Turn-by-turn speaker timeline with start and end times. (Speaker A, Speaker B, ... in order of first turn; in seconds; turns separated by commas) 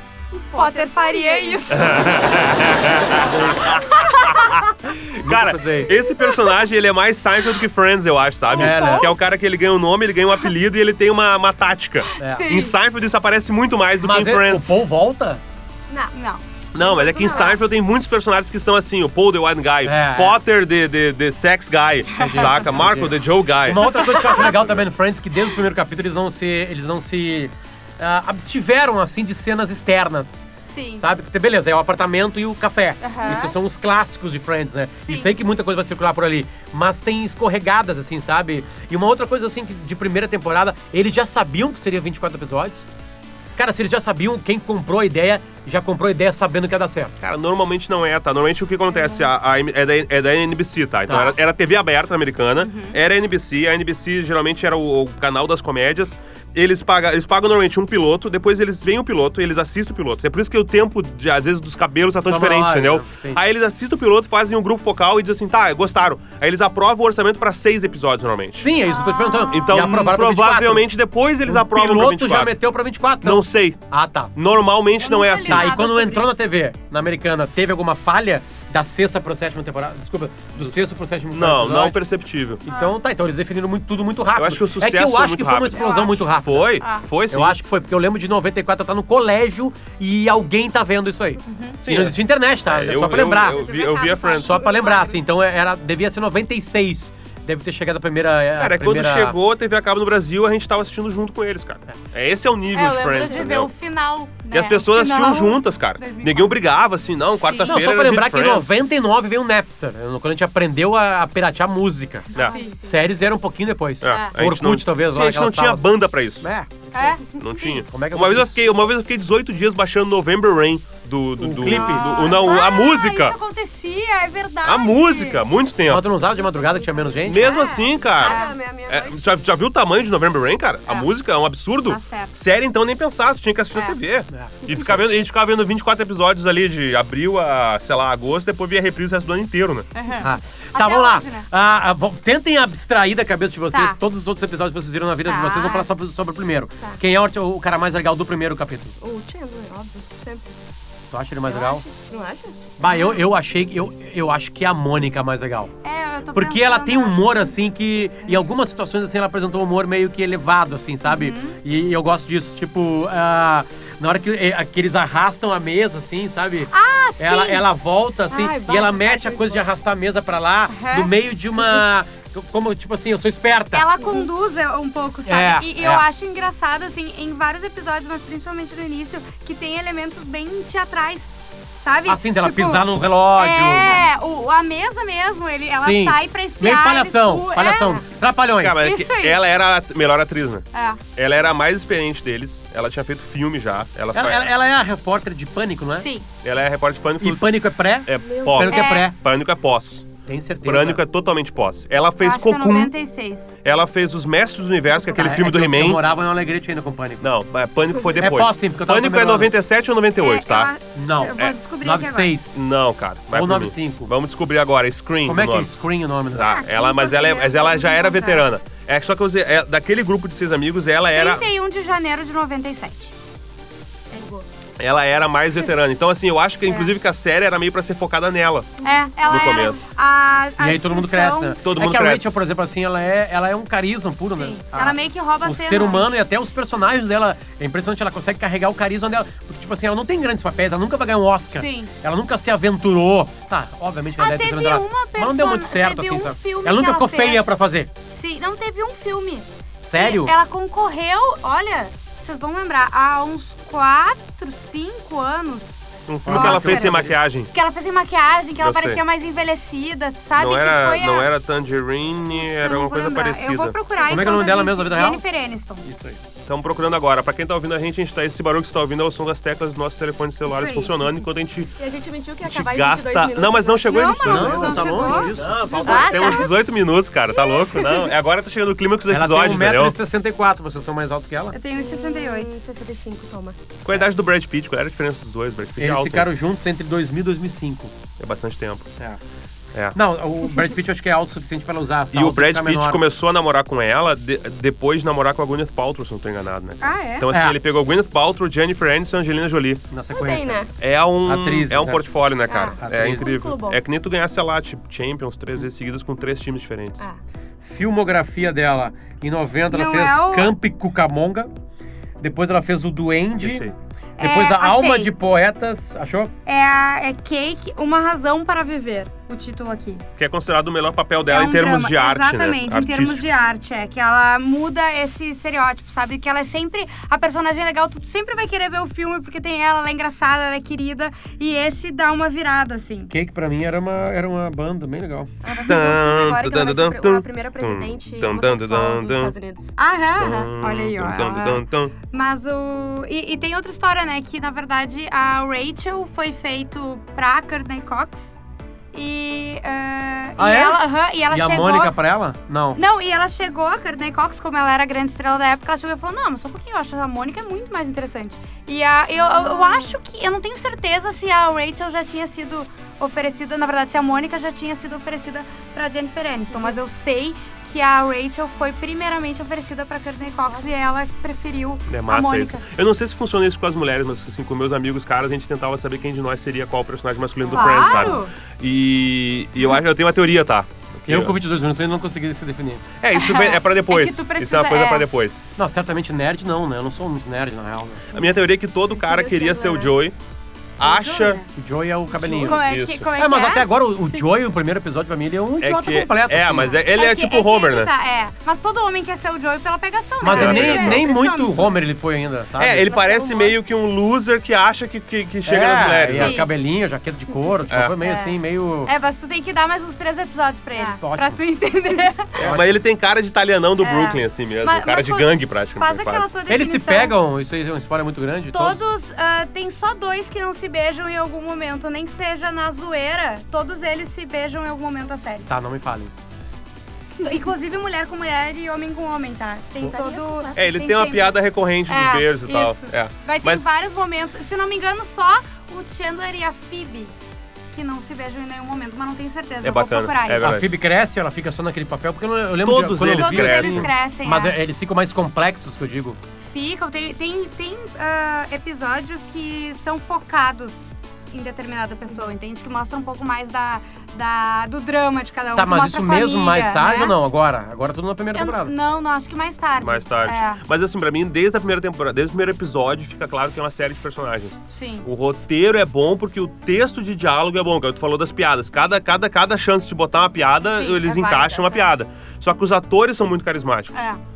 Speaker A: 0.3-1.7, Speaker B: 0.5-2.1, Speaker C: 1.7-14.7, Speaker D: 3.1-3.8, Speaker B: 3.6-4.7, Speaker D: 5.2-5.9, Speaker B: 5.9-6.5, Speaker B: 8.5-9.1, Speaker D: 8.5-9.1, Speaker B: 12.1-12.7, Speaker D: 12.2-12.5, Speaker D: 14.0-15.4, Speaker B: 16.1-16.4, Speaker C: 16.7-23.9, Speaker A: 16.8-17.6, Speaker D: 19.8-20.4, Speaker D: 22.2-42.9, Speaker B: 22.2-22.6, Speaker B: 23.8-24.5, Speaker B: 30.7-31.1, Speaker B: 33.0-33.5, Speaker B: 35.0-35.3, Speaker D: 43.5-47.1, Speaker C: 47.2-68.7, Speaker B: 48.9-49.3, Speaker D: 51.1-51.3, Speaker B: 52.6-53.0, Speaker D: 62.2-63.4, Speaker D: 68.6-70.8, Speaker B: 68.8-69.7, Speaker C: 69.5-72.6, Speaker D: 71.4-74.3, Speaker C: 73.2-73.8, Speaker C: 74.3-75.7, Speaker B: 75.0-76.3, Speaker D: 75.5-82.0, Speaker C: 81.3-82.6, Speaker D: 82.6-86.8, Speaker B: 82.7-83.0, Speaker C: 84.3-87.6, Speaker B: 85.8-86.2, Speaker B: 86.8-87.0, Speaker D: 87.3-93.6, Speaker B: 91.4-91.8, Speaker C: 91.8-94.6, Speaker A: 93.4-95.2, Speaker D: 94.3-99.4, Speaker C: 98.6-103.7, Speaker B: 102.7-106.6, Speaker A: 103.1-103.5, Speaker C: 104.5-108.7, Speaker B: 107.4-107.8, Speaker D: 107.6-115.9, Speaker A: 112.3-113.1, Speaker B: 112.4-112.8, Speaker C: 114.0-116.5, Speaker B: 114.1-114.3, Speaker D: 116.4-117.2, Speaker B: 116.9-117.8, Speaker C: 117.4-123.3, Speaker D: 117.8-118.7, Speaker D: 121.4-122.3, Speaker B: 121.6-125.4, Speaker C: 124.6-126.0, Speaker D: 125.9-127.6, Speaker A: 126.3-129.3, Speaker C: 127.2-139.9, Speaker B: 127.3-128.6, Speaker B: 131.8-132.3, Speaker D: 134.3-135.0, Speaker B: 139.9-141.5, Speaker D: 140.2-148.9, Speaker B: 143.7-144.0, Speaker B: 145.2-145.9, Speaker A: 149.0-150.6, Speaker D: 151.1-151.8, Speaker A: 151.5-152.6, Speaker D: 152.8-155.7, Speaker B: 152.8-153.2, Speaker B: 155.8-157.5, Speaker D: 156.3-173.9, Speaker B: 161.0-161.6, Speaker B: 166.7-167.6, Speaker A: 168.3-169.7, Speaker B: 170.7-171.1, Speaker B: 173.7-188.0, Speaker A: 174.0-174.3, Speaker D: 175.2-176.0, Speaker D: 182.1-184.0, Speaker D: 185.7-188.8, Speaker C: 188.6-194.5, Speaker B: 188.8-189.4, Speaker B: 190.7-191.0, Speaker D: 194.1-196.1, Speaker B: 196.0-196.2, Speaker C: 196.4-197.5, Speaker D: 197.2-199.2, Speaker C: 198.1-202.9, Speaker A: 198.2-198.8, Speaker B: 198.7-199.1, Speaker D: 200.2-201.0, Speaker B: 202.2-203.5, Speaker C: 203.6-206.0, Speaker D: 205.2-207.2, Speaker C: 207.2-210.7, Speaker D: 208.2-209.5, Speaker B: 210.2-212.3, Speaker D: 210.9-212.6, Speaker C: 212.5-215.7, Speaker D: 213.3-214.1, Speaker D: 215.2-216.6, Speaker C: 216.3-221.4, Speaker B: 216.5-218.5, Speaker B: 221.1-223.1, Speaker A: 224.1-224.4, Speaker C: 224.8-228.7, Speaker B: 226.7-226.9, Speaker B: 228.8-231.6, Speaker C: 229.3-229.8, Speaker D: 230.6-247.9, Speaker C: 231.6-232.3, Speaker B: 234.3-236.1, Speaker B: 241.5-241.9, Speaker B: 244.2-247.5, Speaker B: 248.1-261.3, Speaker D: 249.8-250.3, Speaker C: 256.1-257.5, Speaker D: 256.2-257.2, Speaker C: 258.6-259.0, Speaker C: 260.4-263.8, Speaker B: 262.3-265.8, Speaker D: 264.0-265.2, Speaker D: 265.8-266.2, Speaker C: 266.4-271.7, Speaker B: 270.5-270.9, Speaker A: 271.8-276.6, Speaker C: 272.4-274.9, Speaker B: 273.9-276.4, Speaker D: 274.2-276.5, Speaker C: 275.5-279.9, Speaker A: 277.3-278.1, Speaker D: 279.1-281.6, Speaker B: 281.5-282.6, Speaker A: 281.8-283.6, Speaker C: 283.8-286.3, Speaker D: 285.8-287.9, Speaker C: 288.2-288.9, Speaker D: 289.9-293.0, Speaker C: 292.1-299.8, Speaker B: 296.8-297.3, Speaker D: 297.3-297.6, Speaker D: 299.9-300.6, Speaker A: 300.1-300.7, Speaker C: 300.8-307.0, Speaker D: 301.2-302.0, Speaker A: 302.5-303.8, Speaker D: 302.8-303.4, Speaker D: 307.6-311.5, Speaker B: 309.7-310.5, Speaker D: 312.2-316.3, Speaker C: 313.4-313.7, Speaker B: 314.2-315.1, Speaker B: 316.4-320.0, Speaker C: 320.2-323.2, Speaker B: 321.3-333.1, Speaker D: 333.1-335.3, Speaker A: 335.4-340.5, Speaker C: 335.6-339.3, Speaker B: 339.8-348.4, Speaker C: 340.2-341.9, Speaker B: 348.9-351.9, Speaker D: 350.4-352.8, Speaker B: 352.8-372.6, Speaker A: 359.2-359.9, Speaker A: 370.4-370.7, Speaker C: 371.9-381.3, Speaker A: 377.5-378.3, Speaker B: 377.5-378.3, Speaker D: 381.1-382.9, Speaker C: 383.0-385.4, Speaker B: 383.1-385.1, Speaker D: 385.6-388.0, Speaker C: 388.1-390.1, Speaker A: 388.9-389.9, Speaker C: 390.8-391.4, Speaker B: 390.8-391.4, Speaker D: 391.5-392.6, Speaker A: 392.2-392.5, Speaker B: 392.3-394.2, Speaker C: 392.5-393.1, Speaker D: 393.1-396.8, Speaker C: 395.6-397.9, Speaker B: 396.9-401.8, Speaker D: 400.2-402.9, Speaker C: 400.2-401.1, Speaker C: 402.6-406.4, Speaker A: 402.8-403.6, Speaker D: 405.4-408.9, Speaker B: 406.1-406.5, Speaker C: 407.7-407.9, Speaker B: 408.0-412.4, Speaker D: 411.0-411.4, Speaker D: 412.4-412.8, Speaker C: 412.4-416.3, Speaker B: 413.8-417.1, Speaker D: 416.5-418.8, Speaker B: 418.5-425.5, Speaker D: 425.5-426.1, Speaker B: 427.2-437.1, Speaker A: 429.8-430.8, Speaker C: 430.6-433.7, Speaker B: 437.7-440.5, Speaker C: 439.6-440.6, Speaker D: 440.4-446.2, Speaker C: 442.6-443.9, Speaker B: 443.2-444.6, Speaker B: 446.5-457.1, Speaker D: 455.5-458.7, Speaker B: 458.3-460.6, Speaker C: 459.8-473.9, Speaker B: 464.7-465.1, Speaker B: 470.6-471.9, Speaker B: 473.9-474.2